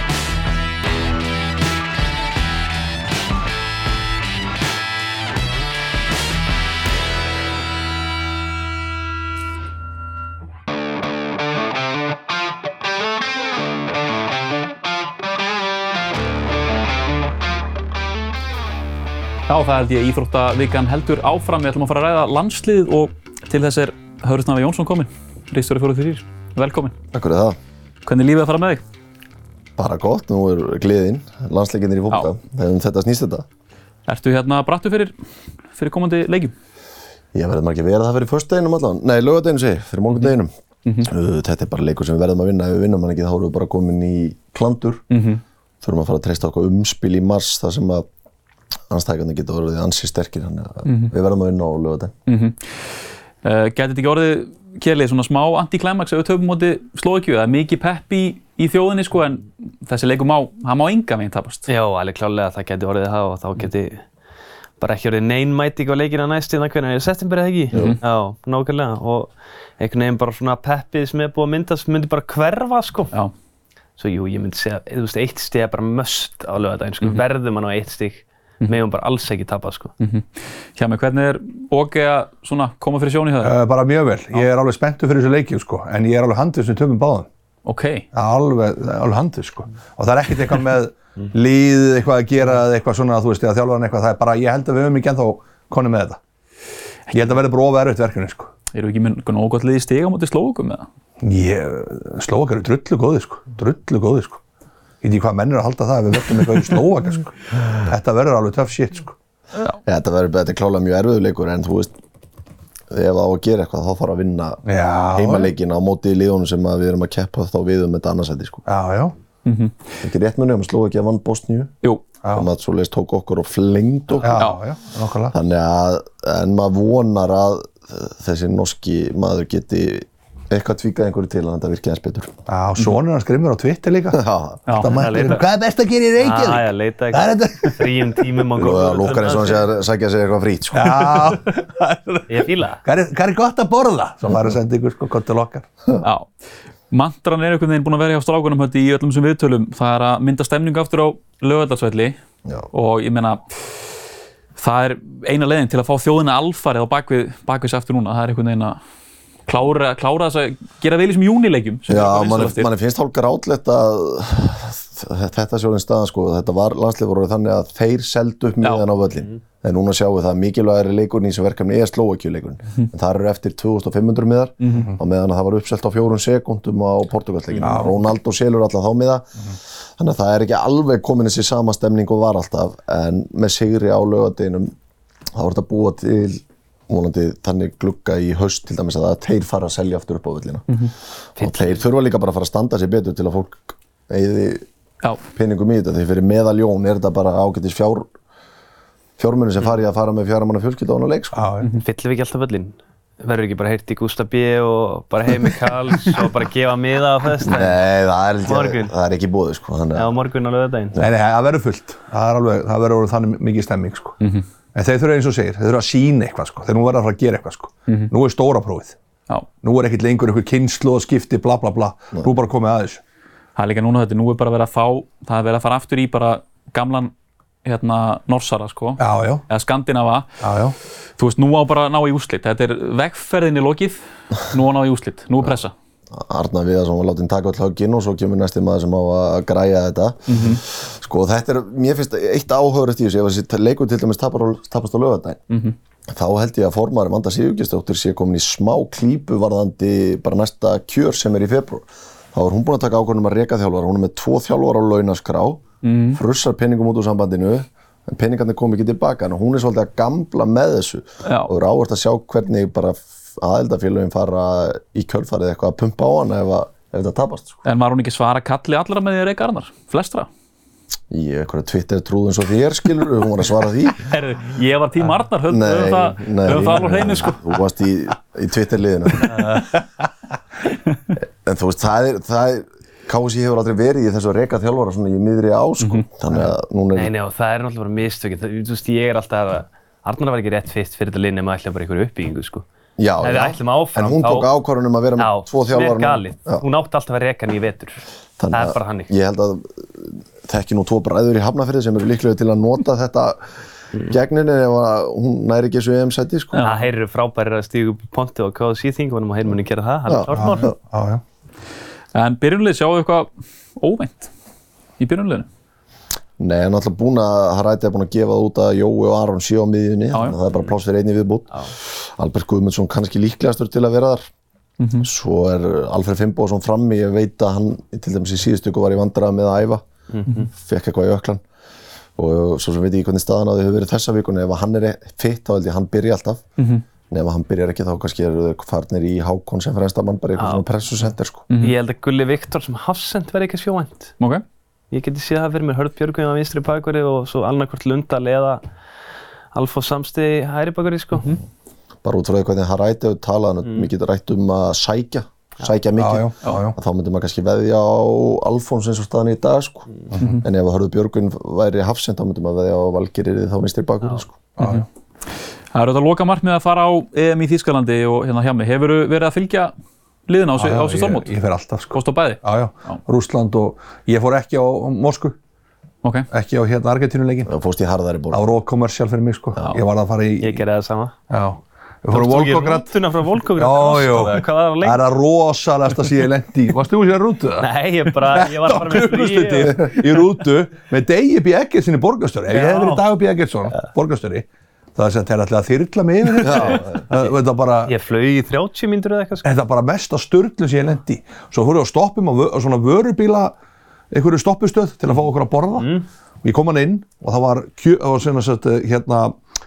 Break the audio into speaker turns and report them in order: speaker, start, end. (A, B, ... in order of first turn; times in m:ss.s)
0:19.5-0:27.0 A
0:27.1-0:27.6 B
0:28.0-0:28.8 A
0:29.8-0:33.4 B
0:34.1-0:35.2 A
0:35.7-0:36.5 A
0:37.3-0:40.5 B
0:41.0-0:45.0 B
0:45.1-0:45.4 A
0:45.8-0:48.0 B
0:48.9-0:52.1 B
0:50.8-0:51.1 A
0:52.3-0:52.6 A
0:53.4-1:01.7 A
1:01.7-1:04.0 C
1:04.8-1:13.1 C
1:07.7-1:08.0 A
1:14.0-1:19.9 C
1:20.0-1:23.6 A
1:23.4-1:27.3 D
1:27.6-1:28.0 A
1:28.1-1:36.2 D
1:37.1-1:38.5 D
1:38.7-1:40.9 A
1:41.2-1:44.4 D
1:45.0-1:49.2 D
1:49.8-1:51.9 B
1:52.9-1:58.6 B
1:54.6-1:55.5 D
1:58.6-1:59.1 D
1:59.4-1:59.8 A
2:00.0-2:01.7 B
2:02.3-2:04.4 B
2:04.2-2:05.4 D
2:04.3-2:04.6 A
2:05.3-2:12.3 B
2:12.5-2:18.2 D
2:14.1-2:14.6 B
2:14.7-2:15.1 A
2:14.8-2:15.4 C
2:16.2-2:19.7 C
2:18.6-2:21.4 B
2:20.7-2:25.7 D
2:22.3-2:22.8 C
2:26.0-2:26.3 A
2:26.9-2:32.2 A
2:32.7-2:33.6 A
2:34.6-2:38.8 A
2:39.5-2:42.7 A
2:41.9-2:59.3 B
2:57.6-2:58.0 D
3:00.0-3:04.7 B
3:05.3-3:10.6 B
3:11.4-3:11.8 C
3:11.4-3:14.6 B
3:15.3-3:18.1 B
3:19.2-3:21.5 B
3:21.3-3:21.7 D
3:21.8-3:27.8 C
3:27.4-3:30.1 B
3:28.4-3:28.9 C
3:29.9-3:31.0 C
3:31.0-3:34.2 D
3:34.7-3:39.0 D
3:39.6-3:43.0 D
3:43.6-3:47.1 A
3:47.6-3:50.4 A
3:49.0-3:49.4 D
3:50.4-3:50.7 D
3:51.2-3:55.7 A
3:56.1-4:05.4 B
4:00.3-4:00.6 A
4:05.5-4:05.7 A
4:06.1-4:27.6 B
4:15.8-4:16.2 A
4:21.2-4:21.5 A
4:27.6-4:30.3 A
4:31.1-4:34.1 B
4:34.0-4:37.4 A
4:35.5-4:39.6 B
4:39.5-4:39.8 D
4:41.4-4:47.1 B
4:45.8-4:46.0 A
4:46.9-4:52.6 C
4:53.0-4:56.6 B
4:53.2-4:54.5 C
4:55.2-4:58.0 C
4:58.4-5:03.4 B
4:58.5-4:59.1 C
5:04.0-5:06.6 B
5:06.5-5:06.8 A
5:06.6-5:10.7 C
5:10.1-5:10.7 B
5:10.3-5:11.2 D
5:12.1-5:14.3 A
5:15.0-5:15.5 A
5:16.4-5:24.2 B
5:20.1-5:20.4 A
5:24.8-5:25.1 A
5:25.0-5:29.8 B
5:30.1-5:30.5 C
5:30.5-5:31.4 B
5:32.2-5:36.4 B
5:36.6-5:36.8 A
5:37.1-5:41.4 B
5:40.4-5:40.6 C
5:41.6-5:44.1 C
5:44.9-5:48.6 C
5:49.5-5:51.3 C
5:52.0-6:04.5 B
5:56.0-5:56.8 D
6:00.1-6:00.4 D
6:00.2-6:00.4 A
6:04.6-6:04.8 D
6:04.6-6:04.8 A
6:05.7-6:09.7 A
6:10.3-6:11.3 A
6:10.6-6:15.3 D
6:11.9-6:13.0 A
6:16.0-6:16.3 A
6:16.3-6:17.5 D
6:17.5-6:18.4 B
6:18.3-6:20.6 D
6:20.4-6:21.1 C
6:21.3-6:22.9 D
6:22.1-6:25.1 C
6:23.6-6:37.9 D
6:27.6-6:30.2 C
6:32.5-6:33.0 C
6:36.6-6:36.9 C
6:37.8-6:39.5 C
6:39.4-6:43.5 D
6:44.1-6:49.4 D
6:45.8-6:46.0 C